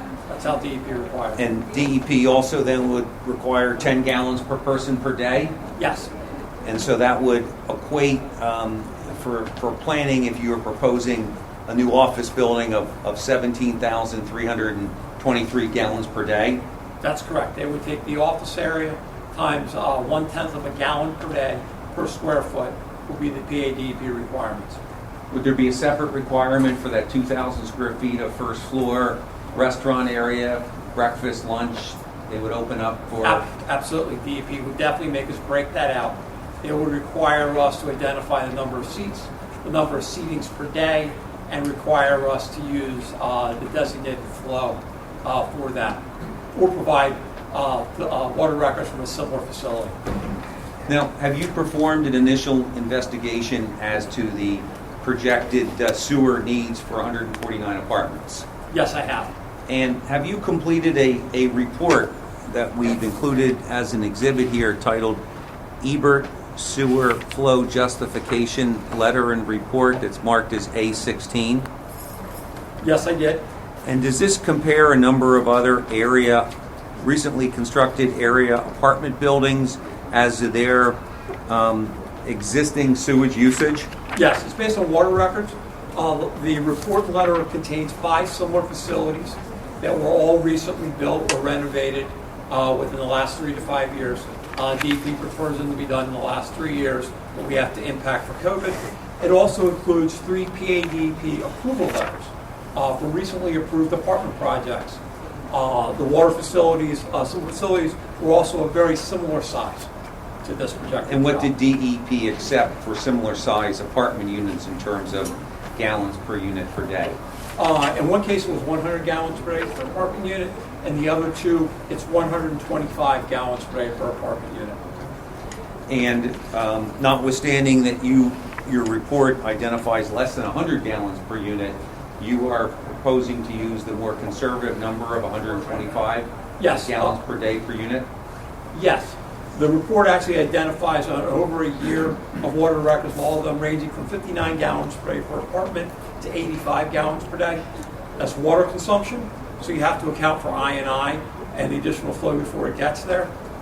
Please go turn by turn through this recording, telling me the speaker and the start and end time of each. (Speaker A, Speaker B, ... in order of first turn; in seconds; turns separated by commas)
Speaker A: 0.3-1.4, Speaker B: 1.4-5.6, Speaker A: 5.8-6.1, Speaker B: 6.6-16.6, Speaker A: 17.0-24.8, Speaker B: 25.3-33.4, Speaker A: 33.2-50.0, Speaker B: 50.9-58.5, Speaker A: 58.7-59.3, Speaker B: 59.7-65.2, Speaker B: 65.8-71.7, Speaker A: 72.8-73.4, Speaker B: 73.8-76.5, Speaker B: 77.0-83.9, Speaker A: 84.1-105.0, Speaker A: 105.5-109.9, Speaker A: 110.4-111.5, Speaker B: 111.1-117.2, Speaker A: 117.6-125.1, Speaker B: 125.9-138.1, Speaker A: 136.6-137.2, Speaker A: 138.7-147.6, Speaker A: 148.2-153.3